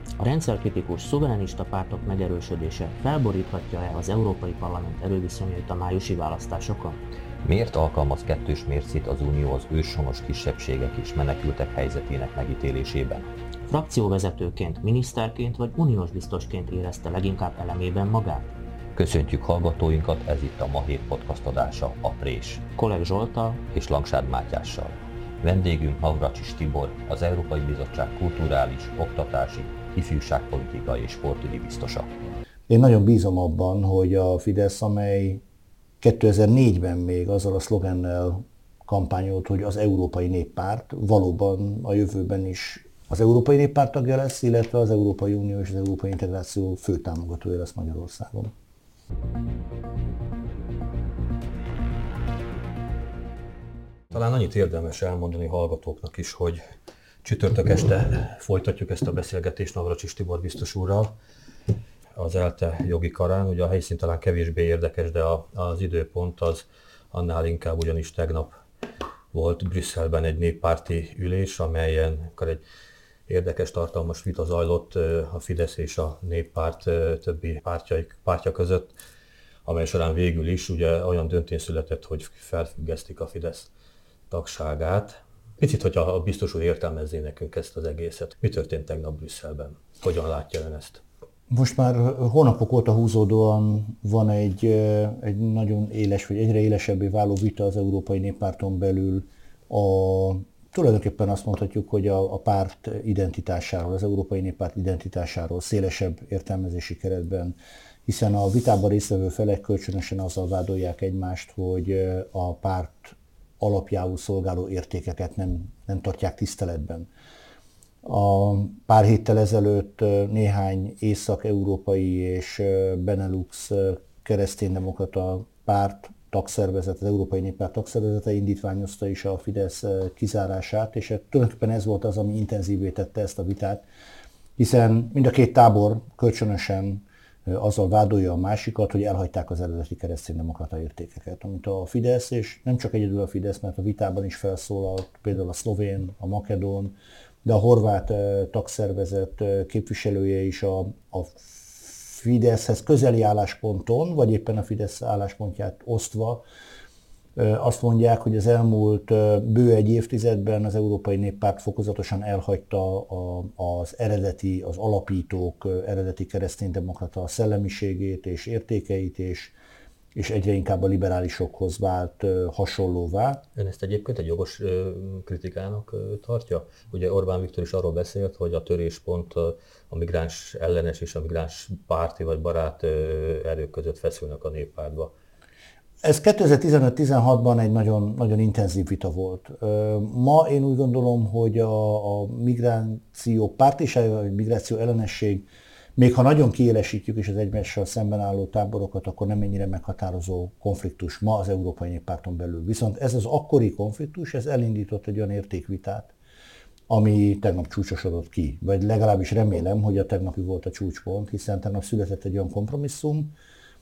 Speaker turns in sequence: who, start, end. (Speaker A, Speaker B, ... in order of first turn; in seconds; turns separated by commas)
Speaker A: 0.2-7.0, Speaker B: 7.4-13.3, Speaker A: 13.7-18.5, Speaker B: 18.9-22.6, Speaker A: 22.7-23.6, Speaker B: 23.7-32.1, Speaker C: 32.7-35.4, Speaker C: 36.0-48.5, Speaker D: 54.1-56.6, Speaker D: 57.2-61.1, Speaker D: 62.1-68.5, Speaker D: 69.3-72.6, Speaker D: 73.3-78.9, Speaker D: 79.7-83.7, Speaker D: 84.3-91.0, Speaker C: 91.5-117.1, Speaker C: 118.0-133.8, Speaker C: 134.6-156.4, Speaker C: 157.3-169.5, Speaker C: 170.1-173.4, Speaker D: 173.6-185.1, Speaker C: 186.0-206.1, Speaker C: 206.9-213.3